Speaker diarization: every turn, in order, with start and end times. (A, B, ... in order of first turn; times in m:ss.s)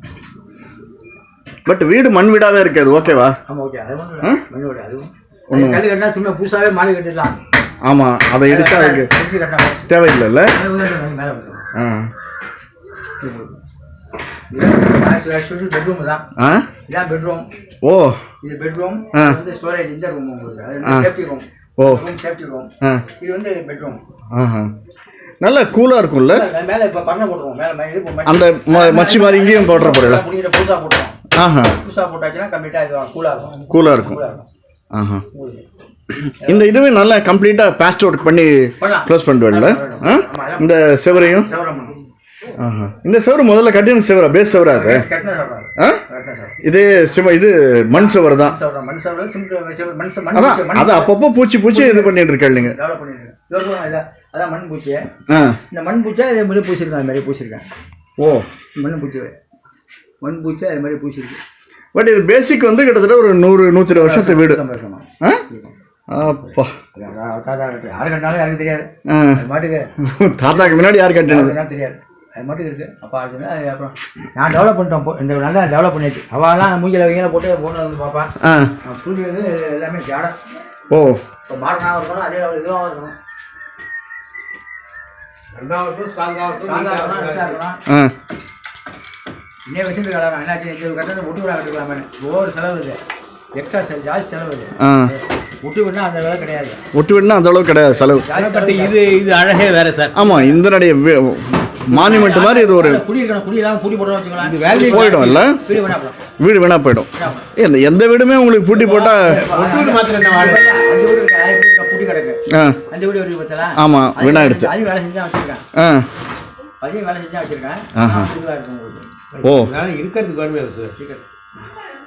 0:01.6-0:03.4 A
0:03.1-0:07.4 B
0:05.5-0:05.9 A
0:07.8-0:09.1 A
0:08.4-0:09.9 B
0:09.9-0:10.5 A
0:10.5-0:11.6 B
0:11.8-0:12.1 A
0:13.2-0:13.6 B
0:14.5-0:16.2 B
0:16.4-0:16.7 A
0:16.9-0:17.4 B
0:17.8-0:18.2 A
0:18.4-0:24.0 B
0:19.1-0:19.4 A
0:20.8-0:21.1 A
0:21.8-0:22.0 A
0:24.3-0:24.7 A
0:25.4-0:26.4 A
0:26.2-0:31.2 B
0:28.2-0:30.2 A
0:31.4-0:31.8 A
0:31.7-0:34.5 B
0:33.7-0:34.2 A
0:34.9-0:35.2 A
0:35.3-0:35.6 B
0:36.3-0:41.5 A
0:36.4-0:36.7 B
0:38.8-0:42.0 B
0:42.6-0:45.1 A
0:44.6-0:46.6 B
0:46.6-0:48.6 A
0:47.9-0:51.1 B
0:50.3-0:52.8 A
0:51.7-0:55.0 B
0:55.3-0:55.6 A
0:55.7-0:57.6 B
0:58.2-0:58.4 A
0:58.8-0:59.4 B
1:00.2-1:01.4 B
1:01.9-1:04.6 A
1:03.9-1:05.7 B
1:06.1-1:06.7 A
1:06.9-1:09.9 B
1:09.1-1:09.4 A
1:10.0-1:11.5 A
1:10.5-1:20.4 B
1:18.4-1:18.7 A
1:20.9-1:21.2 A
1:21.5-1:23.1 B
1:25.5-1:27.6 C
1:26.6-1:27.8 B
1:27.9-1:28.1 A
1:29.6-1:33.0 B
1:33.6-1:36.8 B
1:34.8-1:35.1 A
1:36.9-1:38.3 A
1:38.1-1:39.0 B
1:38.3-1:40.2 C
1:40.1-1:43.0 A
1:40.2-1:40.6 B
1:41.9-1:46.2 B
1:44.4-1:45.5 C
1:44.7-1:45.6 A
1:46.4-1:49.4 A
1:47.2-1:47.5 B
1:48.7-1:55.6 B
1:49.3-1:50.7 C
1:52.5-1:52.8 A
1:53.8-1:54.7 A
1:55.8-1:56.1 A
1:56.8-1:59.1 B
1:58.0-1:58.3 A
1:59.3-2:00.9 C
1:59.4-1:59.7 A
2:01.0-2:01.2 B